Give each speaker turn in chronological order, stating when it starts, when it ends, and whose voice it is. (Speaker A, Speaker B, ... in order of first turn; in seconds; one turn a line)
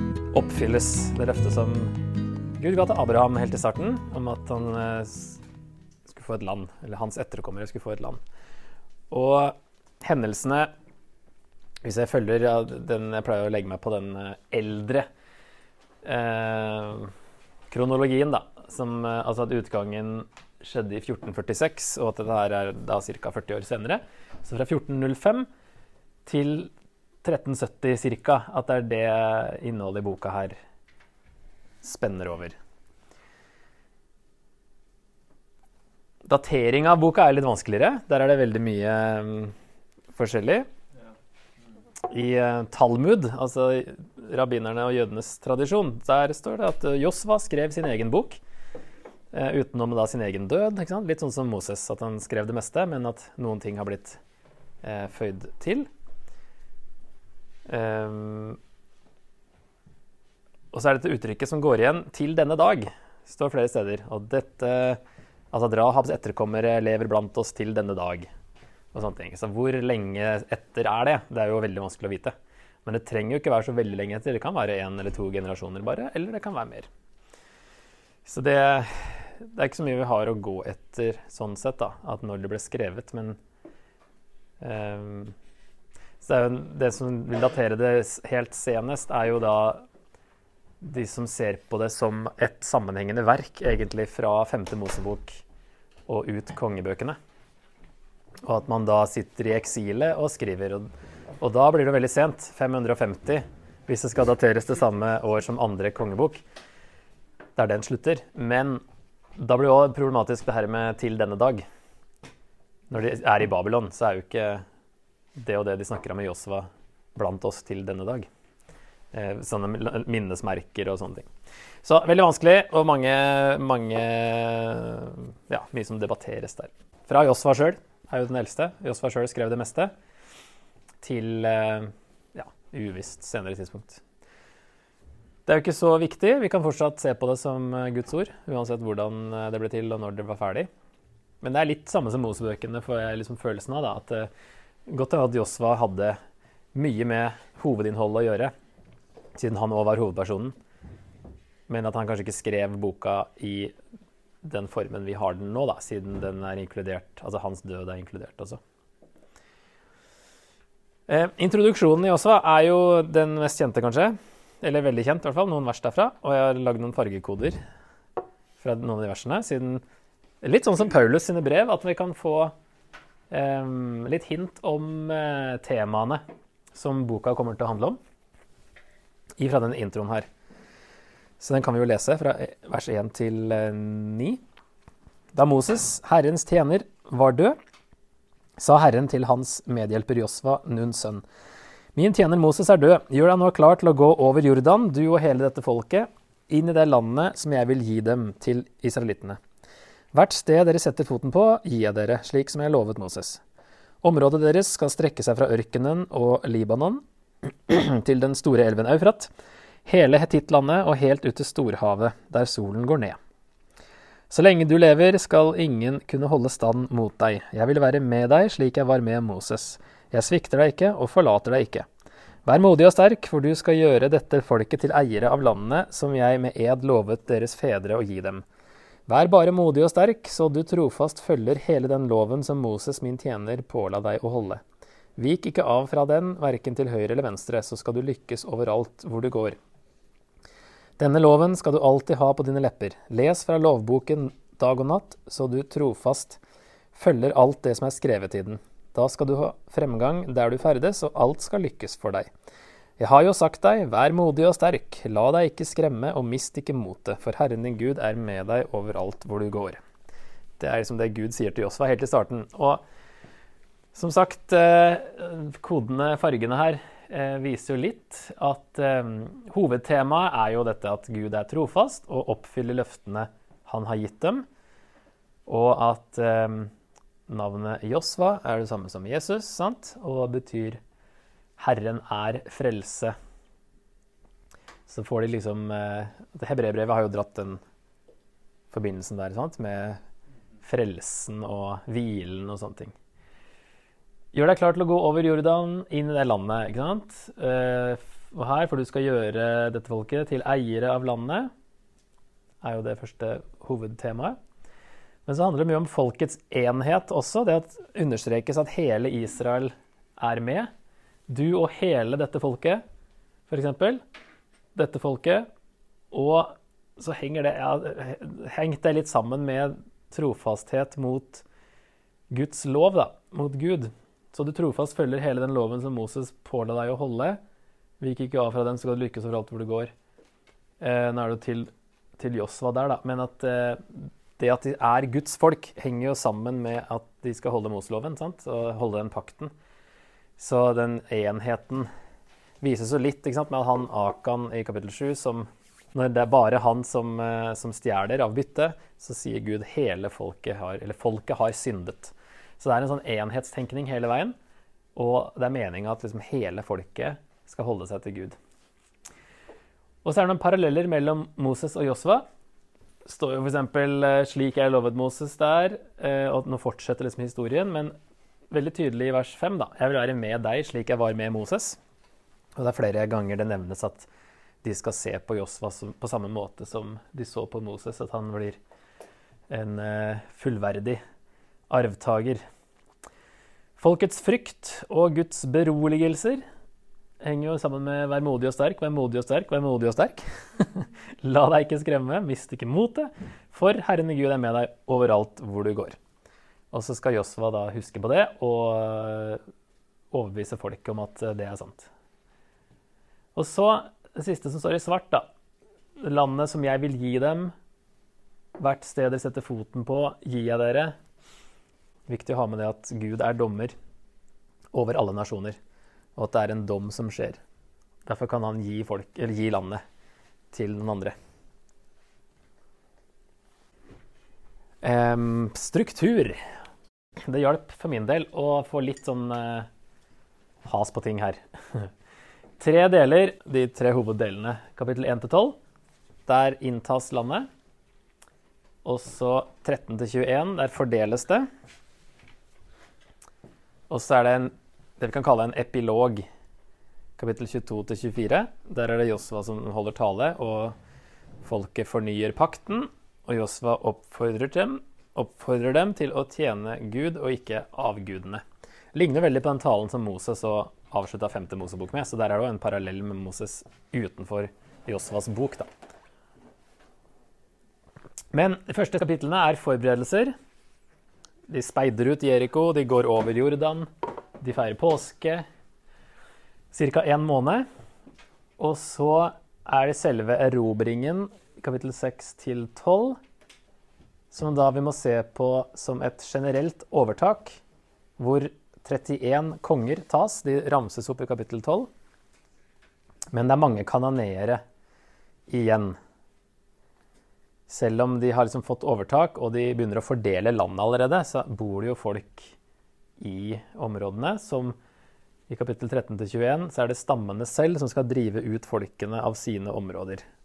Speaker A: 0.3-1.9
Speaker A: 2.6-5.4
Speaker A: 6.1-8.2
Speaker A: 9.1-10.7
Speaker A: 11.8-15.1
Speaker A: 16.0-17.1
Speaker A: 17.7-25.5
Speaker A: 26.3-26.7
Speaker A: 27.2-30.6
Speaker A: 31.8-32.6
Speaker A: 36.2-39.5
Speaker A: 40.1-40.7
Speaker A: 42.0-48.4
Speaker A: 49.3-54.2
Speaker A: 54.8-55.9
Speaker A: 57.7-58.6
Speaker A: 60.7-65.0
Speaker A: 65.5-68.3
Speaker A: 68.9-72.3
Speaker A: 72.8-76.9
Speaker A: 78.3-83.4
Speaker A: 84.6-85.3
Speaker A: 86.2-89.8
Speaker A: 90.8-95.4
Speaker A: 96.1-97.2
Speaker A: 98.4-100.9
Speaker A: 101.4-106.4
Speaker A: 107.6-108.8
Speaker A: 109.4-111.6
Speaker A: 112.9-114.6
Speaker A: 115.4-118.3
Speaker A: 119.1-121.3
Speaker A: 121.8-129.9
Speaker A: 131.0-134.0
Speaker A: 135.5-140.7
Speaker A: 141.4-144.3
Speaker A: 144.9-146.2
Speaker A: 146.7-148.5
Speaker A: 149.3-150.6
Speaker A: 151.7-153.7
Speaker A: 154.4-158.6
Speaker A: 161.1-167.6
Speaker A: 168.6-169.8
Speaker A: 170.4-172.5
Speaker A: 173.3-176.2
Speaker A: 176.7-178.0
Speaker A: 179.4-180.3
Speaker A: 181.4-184.4
Speaker A: 185.3-187.6
Speaker A: 188.6-191.2
Speaker A: 191.9-199.4
Speaker A: 200.1-203.4
Speaker A: 204.0-207.0
Speaker A: 207.7-209.3
Speaker A: 209.9-213.2
Speaker A: 214.3-221.9
Speaker A: 222.5-228.4
Speaker A: 229.1-234.6
Speaker A: 235.2-239.6
Speaker A: 241.0-246.4
Speaker A: 246.9-252.3
Speaker A: 253.0-259.8
Speaker A: 260.6-262.8
Speaker A: 263.9-274.5
Speaker A: 275.5-276.7
Speaker A: 277.3-280.8
Speaker A: 281.6-283.1
Speaker A: 284.9-287.6
Speaker A: 288.7-290.0
Speaker A: 290.6-292.9
Speaker A: 294.3-301.5
Speaker A: 302.6-304.4
Speaker A: 305.3-310.7
Speaker A: 311.3-312.8
Speaker A: 313.5-314.0
Speaker A: 314.8-315.5
Speaker A: 316.1-321.4
Speaker A: 322.3-327.4
Speaker A: 328.0-329.9
Speaker A: 330.8-339.5
Speaker A: 340.4-341.9
Speaker A: 342.6-354.4
Speaker A: 354.9-358.4
Speaker A: 360.0-362.2
Speaker A: 363.1-367.9
Speaker A: 368.5-371.8
Speaker A: 372.6-374.1
Speaker A: 374.6-378.6
Speaker A: 379.5-381.0
Speaker A: 381.7-382.4
Speaker A: 383.8-386.4
Speaker A: 387.2-396.0
Speaker A: 396.7-399.4
Speaker A: 400.1-401.9
Speaker A: 403.4-405.3
Speaker A: 406.0-407.5
Speaker A: 408.6-410.9
Speaker A: 412.1-413.7
Speaker A: 414.7-415.6
Speaker A: 416.2-417.4
Speaker A: 418.1-419.8
Speaker A: 420.5-421.1
Speaker A: 424.8-426.4
Speaker A: 427.2-429.7
Speaker A: 430.6-431.9
Speaker A: 432.6-435.6
Speaker A: 436.3-437.5
Speaker A: 438.9-441.5
Speaker A: 443.9-446.3
Speaker A: 447.2-450.8
Speaker A: 451.4-458.4
Speaker A: 458.9-465.7
Speaker A: 468.3-470.3
Speaker A: 471.5-473.9
Speaker A: 474.4-475.4
Speaker A: 476.7-477.7
Speaker A: 478.6-483.2
Speaker A: 484.3-487.6
Speaker A: 488.2-491.9
Speaker A: 493.3-494.6
Speaker A: 495.5-496.0
Speaker A: 497.7-502.6
Speaker A: 503.2-504.8
Speaker A: 505.5-510.2